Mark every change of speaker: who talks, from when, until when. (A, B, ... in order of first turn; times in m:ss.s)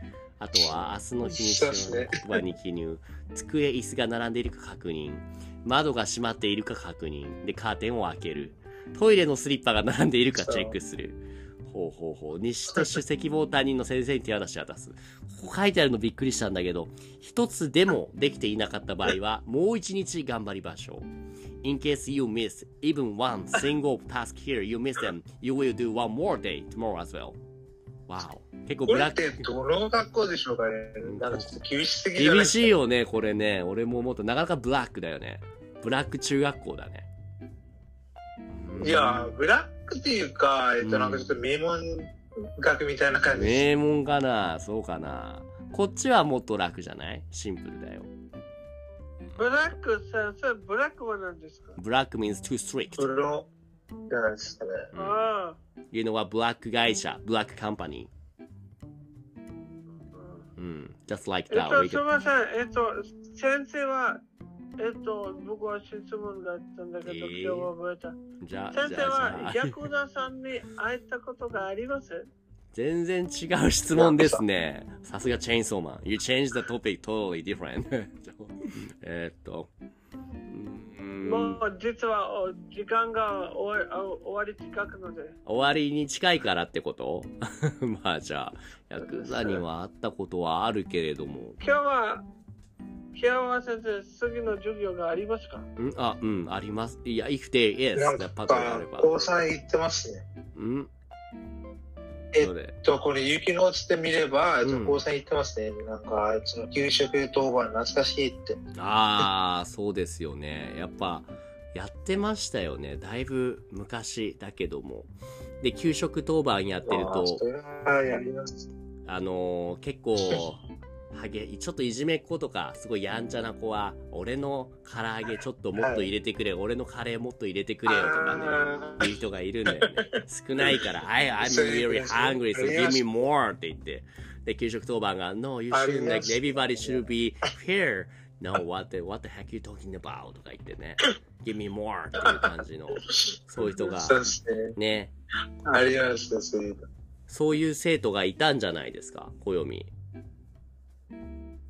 0:00.4-0:21.1 A
0:01.2-0:02.4 B
0:10.4-0:10.8 B
0:21.6-0:27.4 A
0:28.1-0:29.4 A
0:28.9-0:32.7 B
0:31.0-0:31.6 A
0:32.2-0:37.1 A
0:38.5-0:39.3 A
0:38.8-0:43.7 B
0:40.8-0:41.3 A
0:43.3-0:48.1 A
0:49.4-0:51.8 C
0:51.8-0:53.1 A
0:53.0-0:53.5 B
0:54.1-0:54.9 B
0:54.9-0:55.2 A
0:55.0-0:55.6 C
0:55.9-0:58.1 A
1:00.1-1:00.5 C
1:00.6-1:02.0 A
1:01.5-1:04.2 C
1:04.8-1:08.2 C
1:07.0-1:07.7 A
1:08.4-1:09.8 A
1:08.7-1:12.3 C
1:12.7-1:19.7 A
1:14.0-1:14.4 B
1:20.5-1:21.6 A
1:21.2-1:25.4 C
1:25.5-1:31.6 A
1:29.0-1:29.5 C
1:31.6-1:32.2 C
1:33.1-1:35.7 C
1:35.8-1:39.1 A
1:38.0-1:40.2 B
1:40.6-1:40.9 A
1:42.3-1:48.6 B
1:42.4-1:42.8 A
1:44.6-1:45.0 A
1:48.8-1:57.4 A
1:56.9-1:58.6 B
1:59.0-2:00.6 A
2:01.1-2:25.1 A
2:05.8-2:06.1 B
2:07.9-2:09.1 B
2:09.7-2:10.8 B
2:11.4-2:13.0 B
2:15.7-2:17.1 B
2:22.2-2:24.8 B
2:25.7-2:26.8 B
2:27.3-2:29.9 A